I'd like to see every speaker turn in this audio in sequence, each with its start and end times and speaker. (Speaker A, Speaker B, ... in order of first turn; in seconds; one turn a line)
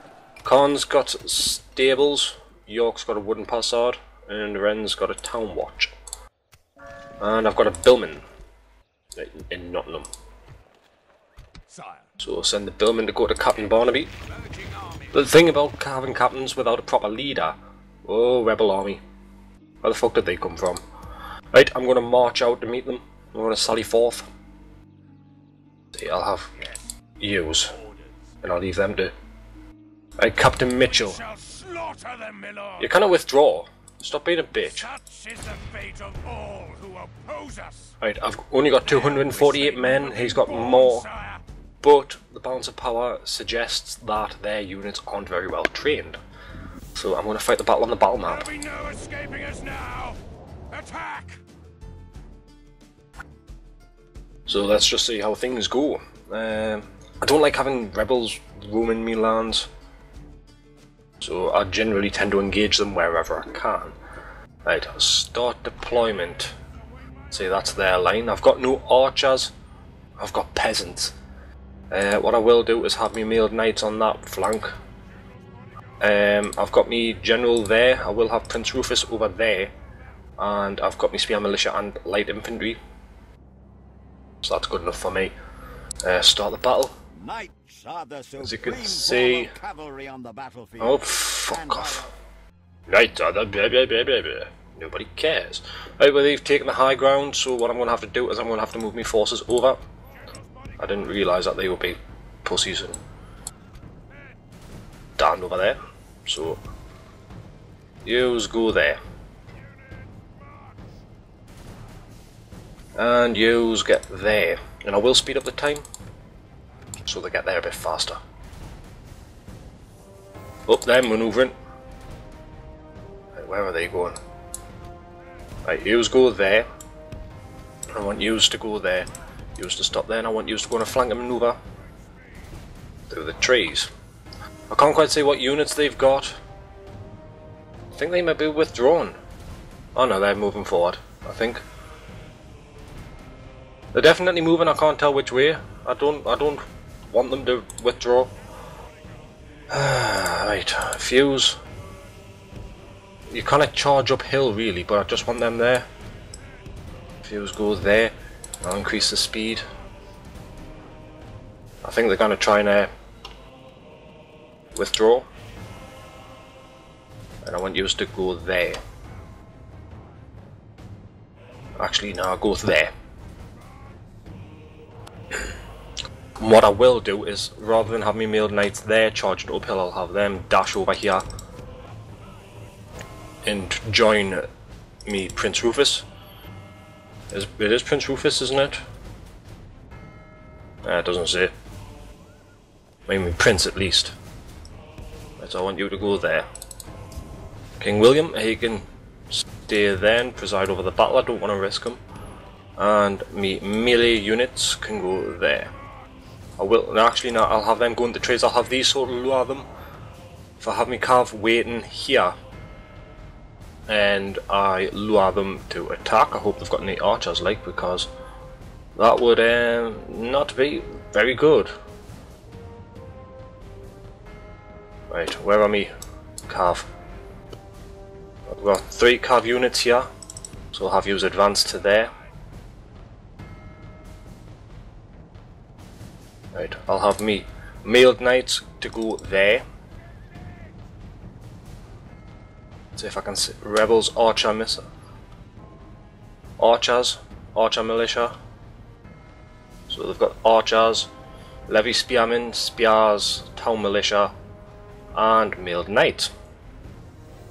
Speaker A: 0.4-5.9
Speaker A: 7.2-8.2
Speaker A: 9.1-10.1
Speaker B: 11.7-12.0
Speaker A: 12.2-14.1
Speaker B: 14.4-14.9
Speaker A: 15.1-19.0
Speaker A: 19.8-20.8
Speaker A: 21.5-24.3
Speaker A: 25.9-26.6
Speaker A: 27.2-27.8
Speaker A: 28.4-29.1
Speaker A: 30.2-31.2
Speaker B: 31.2-32.8
Speaker A: 32.8-34.9
Speaker B: 34.9-38.0
Speaker A: 38.0-41.1
Speaker B: 38.9-41.4
Speaker A: 41.8-46.2
Speaker A: 46.9-48.5
Speaker B: 48.5-51.4
Speaker A: 54.5-59.7
Speaker A: 61.2-64.0
Speaker A: 64.6-66.5
Speaker A: 67.3-69.5
Speaker A: 70.2-71.1
Speaker A: 71.9-74.7
Speaker A: 76.0-79.7
Speaker A: 80.4-82.8
Speaker A: 84.4-85.3
Speaker A: 86.0-86.9
Speaker C: 87.2-92.1
Speaker A: 88.4-89.5
Speaker A: 90.8-92.1
Speaker A: 92.9-99.8
Speaker A: 100.8-103.0
Speaker A: 105.2-106.6
Speaker A: 108.0-109.0
Speaker A: 113.0-115.8
Speaker A: 117.0-118.2
Speaker A: 120.7-121.5
Speaker A: 123.3-124.2
Speaker A: 125.6-126.7
Speaker A: 127.9-131.6
Speaker A: 133.1-133.9
Speaker A: 134.7-136.4
Speaker A: 137.9-139.2
Speaker A: 139.9-141.6
Speaker A: 143.9-148.3
Speaker A: 149.7-151.6
Speaker A: 153.3-155.8
Speaker A: 157.2-159.6
Speaker A: 161.8-162.9
Speaker A: 164.7-165.3
Speaker A: 167.4-168.8
Speaker A: 171.8-172.9
Speaker A: 176.4-181.2
Speaker A: 183.4-184.4
Speaker A: 185.1-186.1
Speaker A: 187.3-188.8
Speaker A: 190.8-191.5
Speaker A: 193.1-194.1
Speaker A: 195.4-196.4
Speaker A: 197.8-202.0
Speaker A: 202.8-205.7
Speaker A: 206.6-209.7
Speaker A: 210.6-212.3
Speaker A: 213.9-218.1
Speaker A: 218.9-221.7
Speaker A: 225.1-225.9
Speaker A: 226.5-226.8
Speaker A: 228.5-230.1
Speaker A: 230.7-232.1
Speaker A: 236.5-239.6
Speaker A: 242.9-244.8
Speaker A: 246.6-248.3
Speaker A: 249.9-251.1
Speaker A: 251.7-254.3
Speaker A: 255.1-256.3